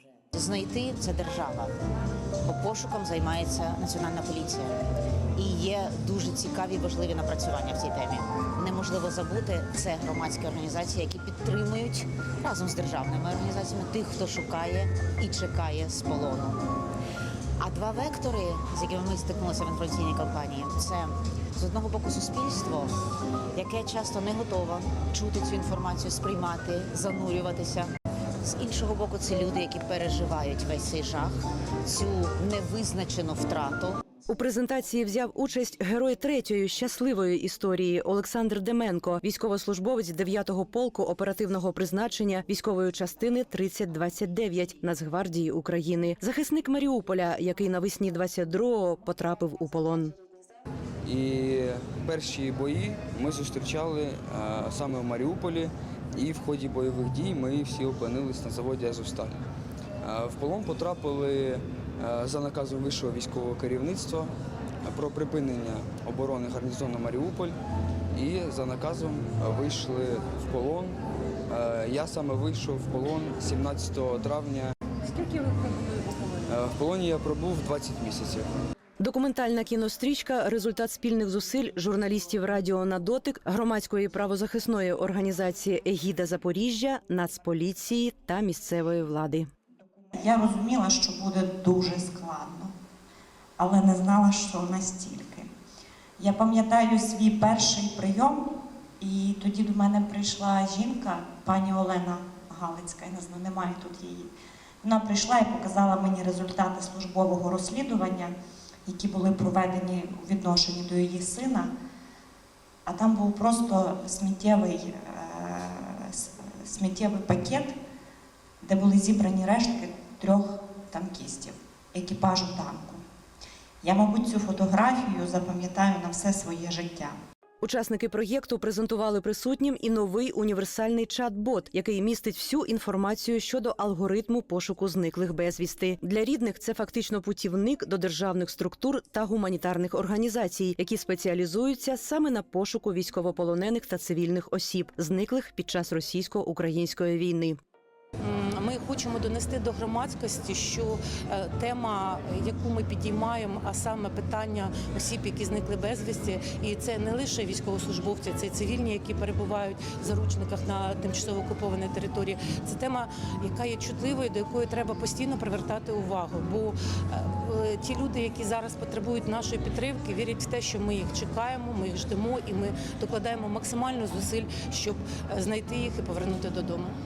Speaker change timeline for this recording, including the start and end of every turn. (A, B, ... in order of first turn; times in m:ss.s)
0:00.3-0:01.7 A
0:02.4-0:04.8 A
0:05.3-0:16.6 A
0:17.6-0:22.9 A
0:23.6-0:27.9 A
0:28.4-0:34.0 A
0:34.3-0:50.1 B
0:51.0-0:59.4 C
1:00.0-1:04.3 C
1:04.8-1:07.6 C
1:08.1-1:11.0 C
1:11.5-1:15.4 C
1:16.4-1:18.5 C
1:19.0-1:29.5 B
1:30.1-1:32.7 D
1:33.6-1:35.5 D
1:36.2-1:44.3 D
1:44.8-1:48.3 D
1:48.8-1:51.7 D
1:52.8-1:57.7 D
1:58.6-2:03.0 D
2:03.8-2:07.2 D
2:07.6-2:27.6 B
2:28.2-2:57.0 E